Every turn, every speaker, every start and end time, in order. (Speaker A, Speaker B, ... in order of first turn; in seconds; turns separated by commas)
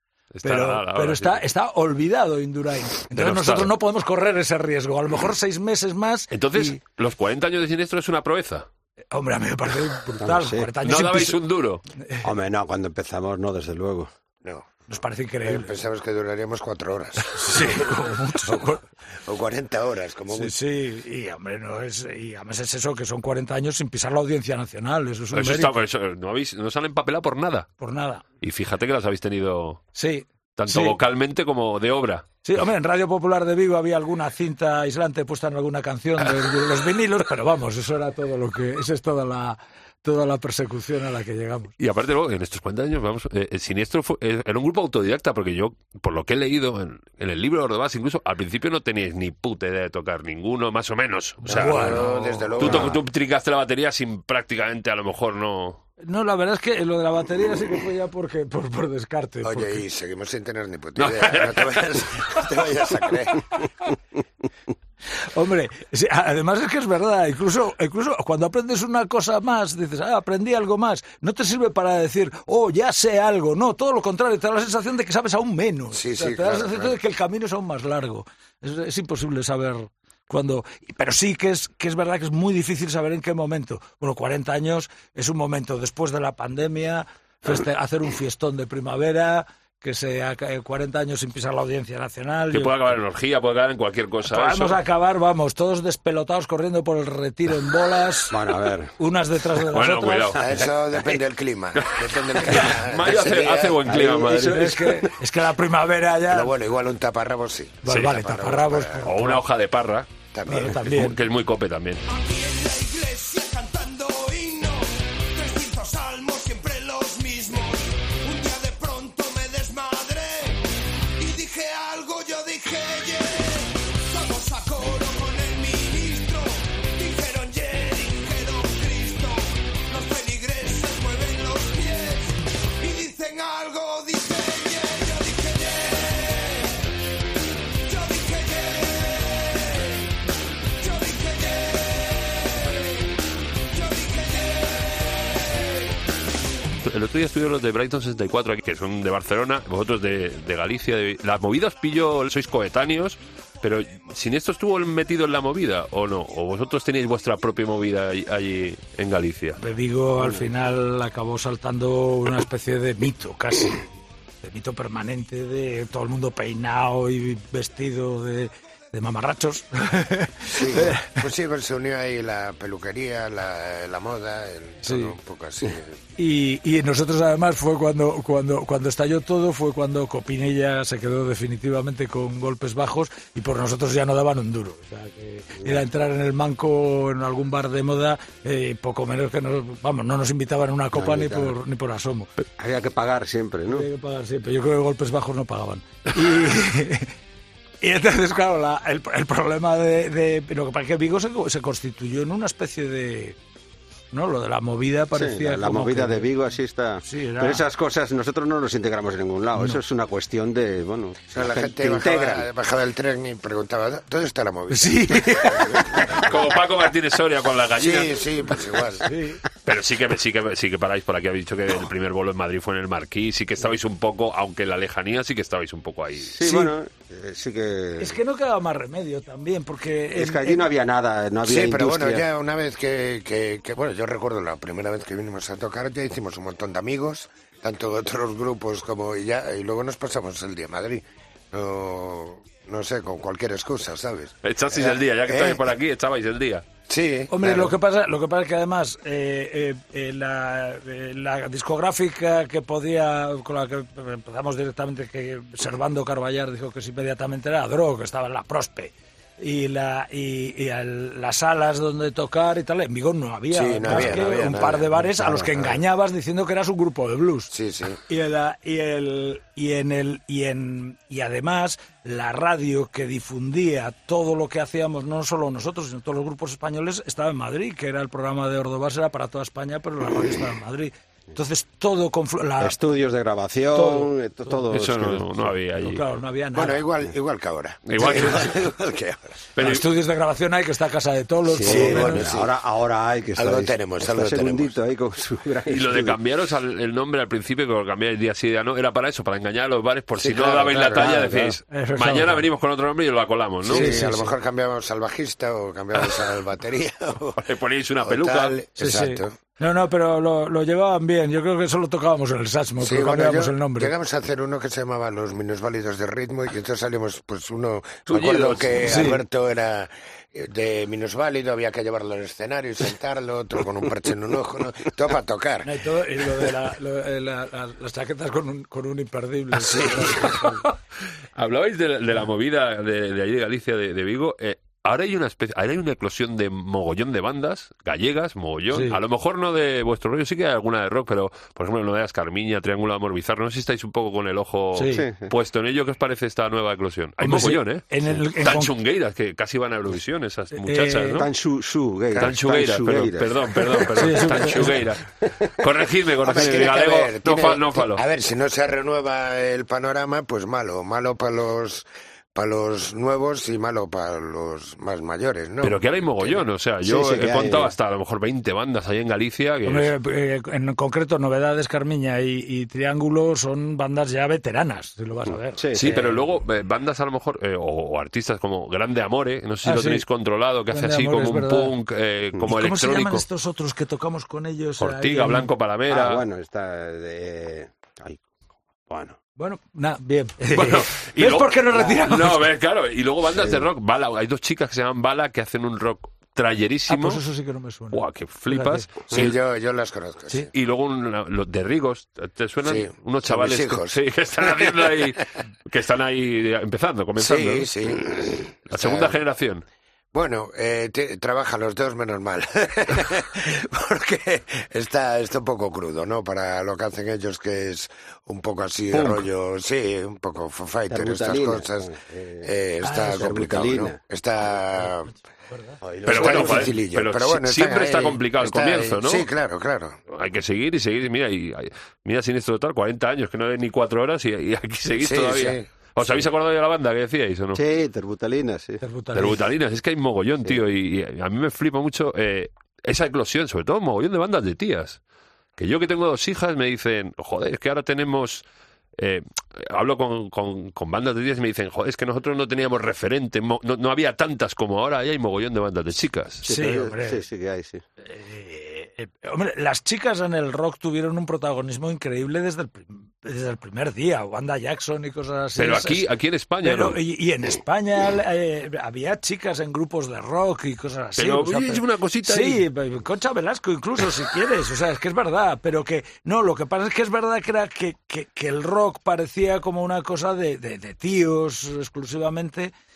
Speaker A: 0.3-1.4, Speaker B: 0.4-6.8, Speaker A: 3.1-3.7, Speaker A: 6.3-8.7, Speaker B: 9.1-11.4, Speaker C: 10.2-10.7, Speaker A: 10.8-11.8, Speaker B: 12.0-12.3, Speaker C: 12.2-14.1, Speaker B: 14.9-15.7, Speaker D: 15.4-17.9, Speaker B: 17.3-18.8, Speaker D: 19.2-20.5, Speaker B: 20.3-25.8, Speaker A: 25.3-27.7, Speaker B: 27.8-28.2, Speaker A: 28.4-29.8, Speaker B: 29.9-31.0, Speaker A: 30.6-32.2, Speaker B: 32.4-41.7, Speaker A: 41.8-55.8, Speaker B: 51.4-53.0, Speaker D: 51.5-53.0, Speaker B: 56.0-59.8, Speaker D: 59.4-63.7, Speaker A: 61.0-62.0, Speaker B: 65.2-92.9, Speaker D: 75.9-77.0, Speaker A: 92.5-94.8, Speaker B: 94.3-100.4, Speaker C: 98.3-98.9, Speaker A: 99.7-100.6, Speaker D: 100.4-103.8, Speaker A: 101.8-104.7, Speaker C: 103.8-105.1, Speaker B: 104.3-106.5, Speaker D: 106.3-109.0, Speaker B: 107.8-109.4, Speaker A: 107.8-108.1, Speaker A: 109.0-110.1, Speaker D: 110.3-110.8, Speaker B: 110.5-111.2, Speaker A: 110.8-112.0, Speaker E: 112.1-120.6, Speaker E: 121.2-136.8, Speaker E: 137.9-140.1, Speaker E: 140.8-143.2, Speaker E: 143.7-145.9, Speaker A: 146.8-159.6, Speaker B: 159.6-163.9, Speaker B: 164.4-171.2, Speaker D: 170.5-176.0, Speaker B: 174.8-175.1, Speaker B: 176.2-192.3, Speaker C: 190.9-191.6, Speaker C: 192.6-193.9, Speaker B: 193.7-197.1, Speaker B: 197.8-203.4, Speaker B: 204.1-206.3, Speaker C: 205.1-212.5, Speaker B: 207.0-207.6, Speaker B: 209.6-209.8, Speaker D: 211.3-216.3, Speaker B: 214.7-216.2, Speaker A: 216.1-218.6, Speaker D: 217.7-219.1, Speaker B: 219.0-219.4, Speaker A: 219.6-226.4, Speaker C: 226.2-228.2, Speaker B: 226.4-226.7, Speaker B: 228.0-230.7, Speaker C: 230.1-232.2, Speaker D: 231.4-245.6, Speaker A: 244.4-246.6, Speaker D: 246.9-247.7, Speaker B: 247.3-267.5, Speaker D: 263.5-264.9, Speaker C: 263.9-264.4, Speaker C: 265.0-265.5, Speaker D: 267.5-268.0, Speaker B: 268.1-282.8, Speaker C: 282.6-285.5, Speaker B: 283.7-284.7, Speaker A: 284.7-286.0, Speaker B: 285.8-286.9, Speaker D: 286.5-289.4, Speaker A: 287.9-288.5, Speaker C: 288.1-288.5, Speaker B: 288.1-288.5, Speaker A: 289.6-289.9, Speaker B: 289.6-292.3, Speaker C: 291.5-296.2, Speaker D: 291.6-292.5, Speaker D: 293.4-294.8, Speaker A: 295.6-303.9, Speaker D: 300.1-301.1, Speaker C: 300.8-301.6, Speaker B: 301.7-302.4, Speaker D: 303.6-307.4, Speaker C: 303.7-304.2, Speaker B: 303.7-304.3, Speaker A: 307.4-308.6, Speaker D: 308.0-309.3, Speaker B: 308.8-313.9, Speaker D: 312.8-325.7, Speaker A: 318.1-319.1, Speaker B: 318.8-319.2, Speaker B: 325.6-330.6, Speaker D: 329.6-330.4, Speaker A: 330.1-330.7, Speaker A: 331.3-351.3, Speaker B: 338.7-339.0, Speaker B: 344.7-345.0, Speaker C: 344.9-345.3, Speaker B: 347.2-348.7, Speaker B: 350.6-351.2, Speaker C: 351.1-354.7, Speaker A: 352.1-358.0, Speaker B: 353.9-354.8, Speaker D: 356.2-365.8, Speaker A: 365.6-369.9, Speaker C: 366.8-367.7, Speaker B: 369.6-376.1, Speaker C: 375.3-376.1, Speaker A: 375.7-383.2, Speaker B: 379.6-380.0, Speaker B: 380.7-381.7, Speaker B: 382.4-385.5, Speaker A: 384.8-386.2, Speaker C: 385.9-388.3, Speaker C: 388.9-389.2, Speaker B: 389.4-392.5, Speaker A: 390.5-397.2, Speaker C: 393.3-393.7, Speaker B: 396.9-398.9, Speaker A: 397.9-399.4, Speaker D: 399.1-400.5, Speaker A: 400.5-407.7, Speaker D: 402.6-405.0, Speaker D: 407.2-409.2, Speaker A: 408.7-409.6, Speaker D: 410.1-425.1, Speaker C: 420.9-424.0, Speaker B: 422.8-423.3, Speaker B: 425.5-425.8, Speaker C: 425.8-426.7, Speaker A: 426.0-429.3, Speaker D: 426.0-430.0, Speaker A: 430.1-437.6, Speaker D: 435.0-435.7, Speaker C: 437.5-438.8, Speaker B: 438.8-439.4, Speaker A: 439.1-445.0, Speaker A: 445.6-448.4, Speaker A: 449.0-456.5, Speaker C: 456.4-457.8, Speaker B: 456.4-457.2, Speaker B: 458.0-466.0, Speaker A: 465.6-467.0, Speaker B: 466.6-482.7, Speaker A: 471.2-472.6